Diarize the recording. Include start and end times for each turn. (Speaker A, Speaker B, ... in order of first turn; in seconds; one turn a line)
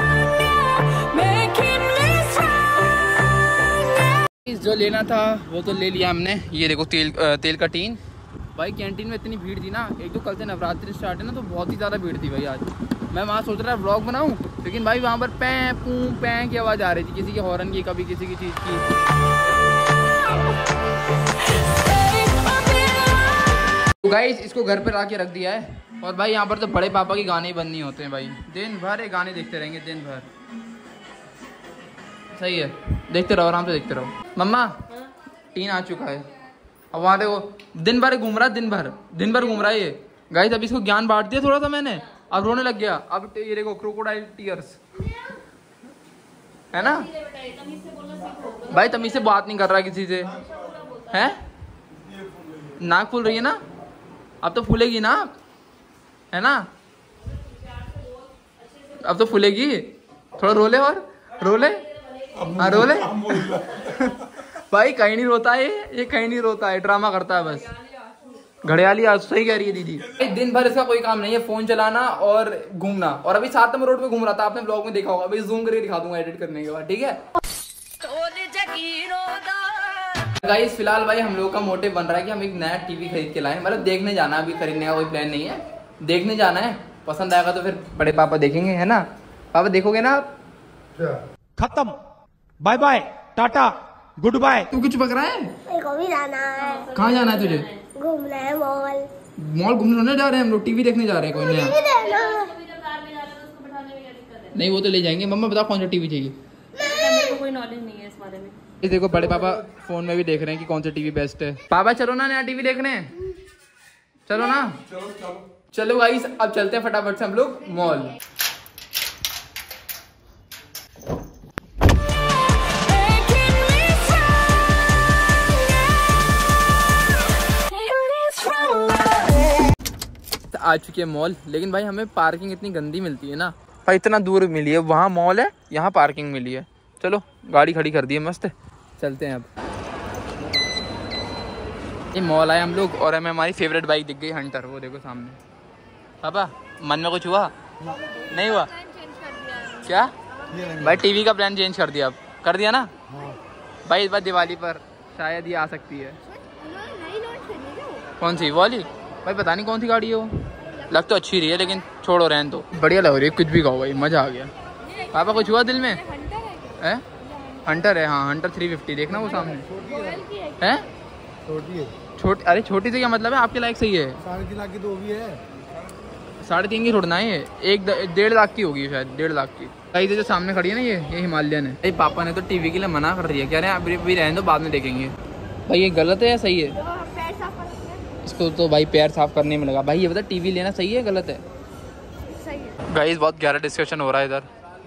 Speaker A: 0.4-3.3
Speaker B: 4.4-8.0
Speaker B: 8.6-18.9
Speaker A: 22.1-23.2
Speaker B: 24.0-30.3
Speaker B: 32.3-34.9
Speaker B: 35.5-36.3
Speaker B: 36.9-44.8
Speaker B: 46.7-47.1
Speaker A: 47.1-48.7
Speaker B: 48.7-50.4
Speaker B: 51.1-51.4
Speaker B: 52.7-53.6
Speaker B: 54.4-55.3
Speaker B: 56.3-56.7
Speaker B: 58.9-61.9
Speaker B: 62.4-67.7
Speaker B: 68.6-77.2
Speaker A: 78.0-80.3
Speaker B: 80.4-90.3
Speaker C: 91.1-92.0
Speaker C: 92.6-94.7
Speaker B: 94.7-95.6
Speaker D: 95.7-96.8
Speaker A: 96.5-97.8
Speaker B: 96.9-97.7
Speaker D: 98.0-99.1
Speaker B: 99.4-101.9
Speaker A: 101.8-104.5
Speaker D: 101.9-102.5
Speaker B: 104.5-106.4
Speaker A: 106.8-108.6
Speaker B: 108.8-113.2
Speaker B: 114.3-114.8
Speaker B: 115.7-118.2
Speaker A: 122.6-126.2
Speaker A: 127.4-129.5
Speaker B: 130.5-139.5
Speaker B: 142.1-145.4
Speaker B: 146.2-147.5
Speaker B: 148.3-148.8
Speaker B: 149.7-150.1
Speaker B: 150.7-152.9
Speaker B: 153.8-156.2
Speaker D: 156.5-158.1
Speaker B: 158.2-164.5
Speaker B: 165.1-166.0
Speaker B: 166.7-167.1
Speaker B: 167.7-169.8
Speaker B: 170.6-170.9
Speaker B: 172.1-174.3
Speaker C: 174.8-175.2
Speaker B: 176.4-185.2
Speaker B: 185.7-186.8
Speaker D: 187.0-187.9
Speaker B: 188.2-191.4
Speaker B: 192.9-194.5